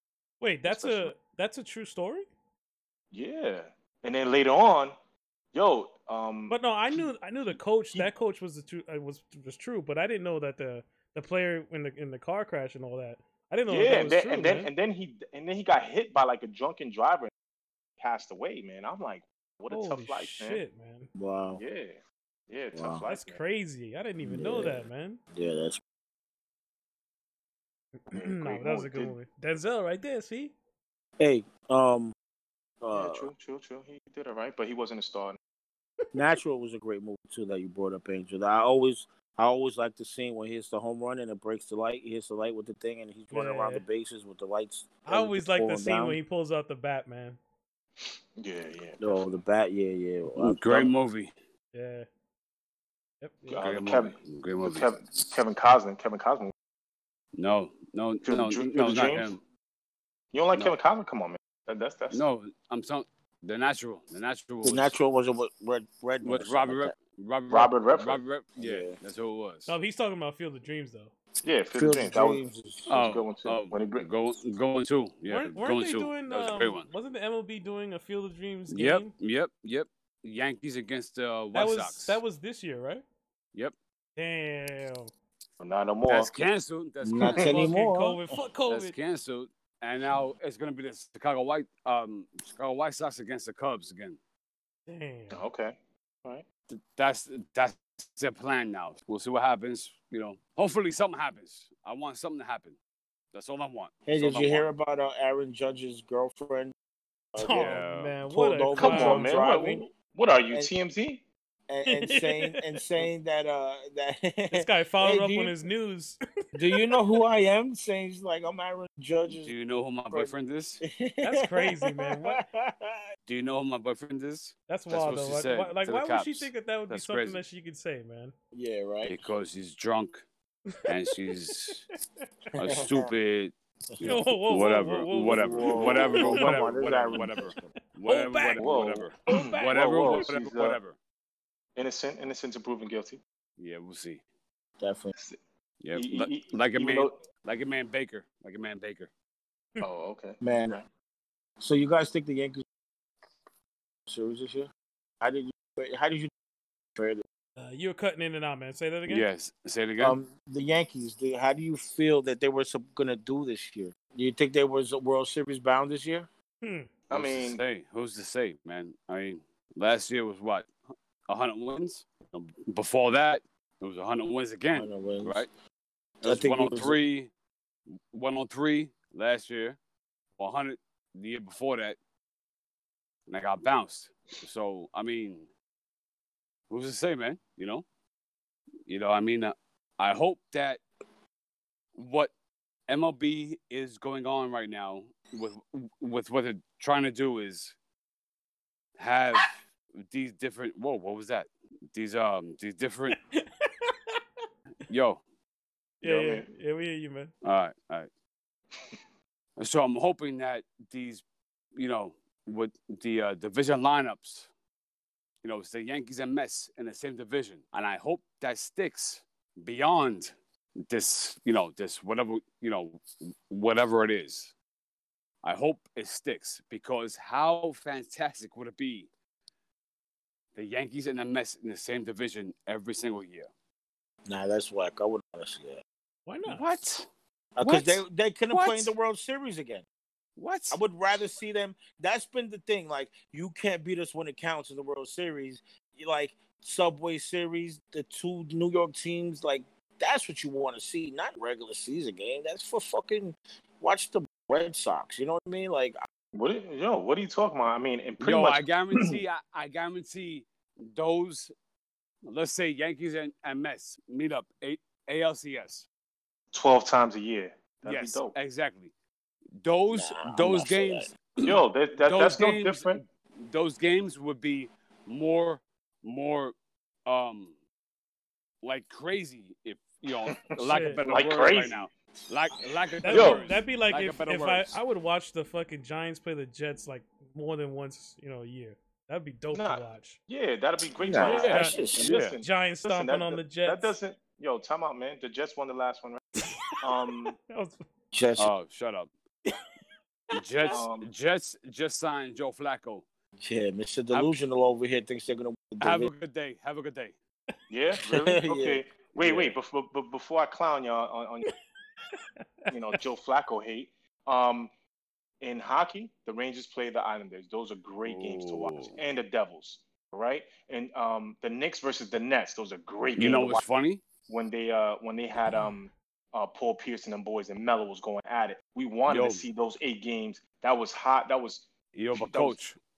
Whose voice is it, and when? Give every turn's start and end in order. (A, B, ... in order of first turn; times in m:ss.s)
0:00.4-0:02.3 A
0:00.6-0:01.1 B
0:03.1-0:04.9 B
0:05.5-0:08.1 B
0:06.5-0:14.7 A
0:13.7-0:17.3 B
0:18.0-0:20.6 B
0:19.7-0:21.1 A
0:21.2-0:21.6 C
0:21.6-0:22.0 B
0:22.5-0:23.4 B
0:22.7-0:23.0 C
0:23.0-0:25.2 A
0:24.2-0:25.8 C
0:28.1-0:30.5 A
0:28.1-0:29.2 B
0:31.2-0:32.1 C
0:32.8-0:33.3 C
0:32.9-0:35.4 B
0:36.1-0:46.2 C
0:43.3-0:43.8 A
0:45.1-0:47.4 A
0:48.4-0:49.3 B
0:49.0-0:50.9 C
0:50.3-0:51.3 D
0:51.7-0:52.0 A
0:53.2-0:53.6 A
0:53.5-0:56.5 B
0:53.6-0:54.9 D
0:57.4-0:59.4 D
0:58.2-0:59.3 B
1:00.3-1:02.2 B
1:02.1-1:04.9 D
1:04.6-1:06.9 C
1:06.2-1:09.7 D
1:07.5-1:08.2 B
1:08.6-1:09.0 C
1:09.6-1:11.1 A
1:11.4-1:14.1 B
1:11.7-1:12.9 C
1:12.9-1:16.9 D
1:15.3-1:19.1 A
1:18.7-1:22.2 D
1:21.5-1:23.0 A
1:24.2-1:25.1 A
1:25.6-1:26.3 B
1:26.1-1:27.7 D
1:27.0-1:28.3 C
1:27.4-1:29.0 A
1:28.7-1:34.2 D
1:34.9-1:35.4 A
1:35.3-1:36.4 B
1:36.7-1:42.8 D
1:43.3-1:44.7 D
1:44.0-1:46.7 C
1:47.3-1:49.8 C
1:47.4-1:49.4 A
1:47.5-1:48.2 D
1:48.7-1:51.2 B
1:51.7-1:55.6 C
1:51.8-1:52.7 A
1:54.5-1:57.0 A
1:56.5-1:59.5 C
1:59.3-2:00.8 D
2:00.1-2:03.0 C
2:01.2-2:02.4 A
2:03.3-2:07.4 D
2:04.7-2:08.3 A
2:08.5-2:09.2 C
2:09.0-2:10.2 D
2:10.9-2:11.9 D
2:11.3-2:11.8 A
2:12.6-2:21.0 D
2:12.6-2:13.1 C
2:13.9-2:14.4 C
2:14.0-2:17.5 A
2:15.1-2:17.7 C
2:18.1-2:18.7 A
2:18.6-2:20.8 B
2:19.3-2:20.3 A
2:21.8-2:23.2 B
2:23.6-2:24.2 D
2:24.8-2:25.1 C
2:25.8-2:29.1 D
2:25.9-2:27.2 B
2:29.8-2:30.8 B
2:30.4-2:30.8 C
2:31.6-2:32.6 C
2:34.1-2:36.3 C
2:36.9-2:37.2 C
2:37.6-2:39.2 A
2:39.1-2:40.2 D
2:40.0-2:46.3 C
2:46.6-2:46.9 A
2:47.1-2:47.6 B
2:47.1-2:50.7 D
2:51.3-2:55.5 D
2:54.7-2:55.4 C
2:56.2-2:57.3 D
2:56.2-2:57.0 C
2:58.1-2:59.8 D
3:00.4-3:02.0 D
3:03.3-3:05.5 D
3:06.7-3:07.8 D
3:08.8-3:10.8 D
3:12.0-3:12.3 D
3:12.9-3:17.7 D
3:19.0-3:23.2 D
3:23.1-3:24.2 A
3:24.9-3:25.2 D
3:26.0-3:27.3 A
3:26.0-3:26.4 B
3:27.4-3:28.1 D
3:29.6-3:31.2 D
3:31.8-3:34.5 D
3:35.4-3:40.3 D
3:40.9-3:44.5 D
3:45.4-3:49.1 D
3:50.5-3:53.5 D
3:54.2-3:55.8 C
3:56.2-3:56.7 A
3:56.4-3:57.0 D
3:57.6-3:59.8 C
3:57.6-3:58.9 D
4:00.4-4:00.8 D
4:00.7-4:16.0 C
4:16.3-4:19.1 B
4:18.2-4:21.5 D
4:22.2-4:25.9 D
4:26.5-4:28.3 B
4:27.8-4:28.9 D
4:29.6-4:36.5 D
4:29.9-4:31.1 C
4:31.4-4:33.0 B
4:37.0-4:37.5 D
4:38.6-4:44.8 D
4:40.5-4:41.9 B
4:40.6-4:41.0 A
4:43.0-4:43.4 B
4:43.0-4:50.2 A
4:49.5-4:56.2 B
4:51.0-4:52.1 C
4:51.2-4:52.4 D
4:51.3-4:51.8 A
4:52.4-4:54.0 A
4:56.4-4:56.8 A
4:56.8-4:57.3 B
4:57.3-4:57.8 A
4:58.1-4:58.5 C
4:58.4-4:59.1 D
5:00.3-5:00.8 A
5:00.3-5:03.0 D
5:00.7-5:01.1 B
5:03.4-5:06.1 C
5:04.1-5:04.4 D
5:05.8-5:07.1 D
5:07.7-5:11.4 B
5:08.1-5:09.4 C
5:12.7-5:14.7 B
5:15.4-5:23.6 B
5:18.0-5:19.0 D
5:23.2-5:24.0 D
5:24.3-5:32.6 B
5:25.5-5:25.7 A
5:29.1-5:29.5 D
5:31.9-5:32.8 D